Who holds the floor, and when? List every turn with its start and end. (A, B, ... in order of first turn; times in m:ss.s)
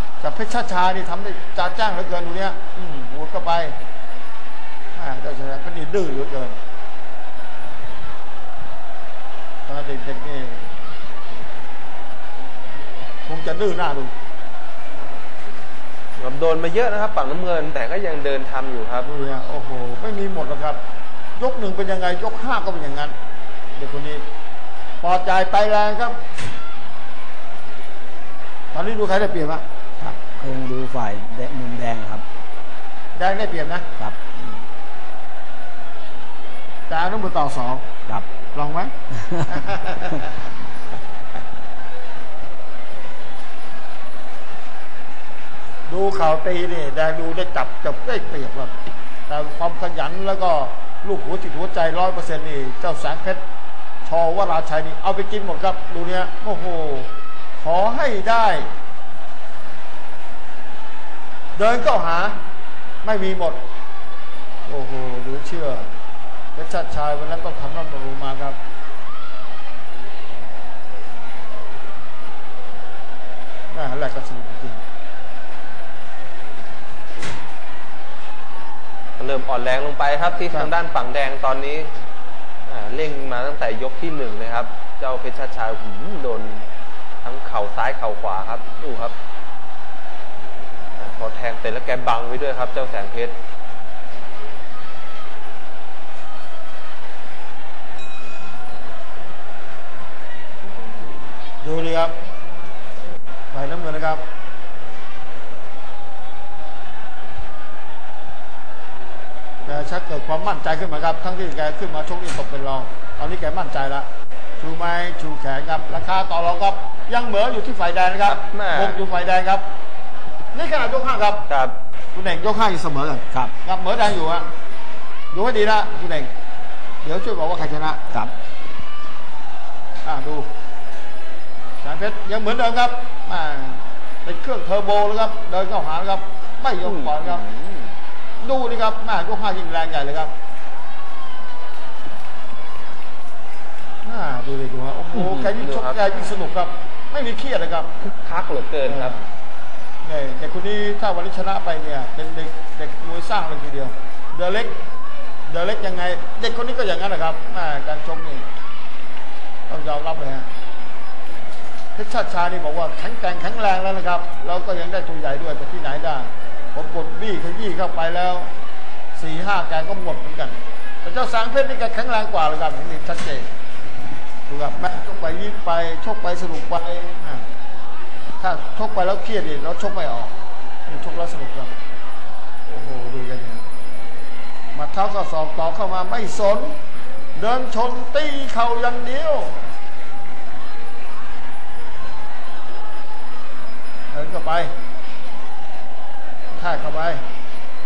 0:00.2-0:03.7 A
0:04.9-0:06.6 A
0:09.6-0:10.6 A
0:13.3-0:14.1 A
0:16.2-0:19.1 B
0:19.0-0:20.8 A
0:21.4-0:23.1 A
0:23.8-0:24.2 A
0:25.0-0:26.2 A
0:28.7-0:29.6 A
0:30.0-0:32.2 C
0:33.2-0:33.9 A
0:36.9-0:37.8 A
0:38.5-0:38.9 A
0:39.4-0:40.3 A
0:45.9-0:48.7 A
0:49.3-0:53.4 A
0:54.0-0:58.7 A
1:01.6-1:02.4 A
1:03.0-1:03.6 A
1:04.7-1:05.8 A
1:06.5-1:08.6 A
1:13.7-1:14.8 A
1:19.2-1:21.9 B
1:22.7-1:26.7 B
1:27.2-1:29.1 B
1:31.0-1:33.3 B
1:41.6-1:42.1 A
1:43.5-1:44.2 A
1:49.6-1:54.1 A
1:54.6-1:59.6 A
1:58.2-1:59.0 B
2:00.5-2:01.5 A
2:01.5-2:01.7 B
2:02.1-2:04.5 A
2:05.3-2:06.3 A
2:07.0-2:08.0 A
2:10.0-2:10.5 A
2:11.8-2:17.4 A
2:16.8-2:17.9 B
2:18.4-2:20.3 A
2:24.0-2:27.9 A
2:25.1-2:26.2 B
2:28.0-2:29.1 B
2:28.8-2:29.2 A
2:30.0-2:34.8 A
2:35.5-2:38.4 A
2:39.7-2:40.5 A
2:41.9-2:48.5 A
2:49.1-2:53.5 A
2:54.5-2:57.4 A
2:58.4-3:00.3 A
3:00.9-3:01.7 A
3:02.7-3:03.6 A
3:04.7-3:06.8 A
3:07.3-3:09.5 A
3:14.1-3:14.7 A
3:16.5-3:17.2 A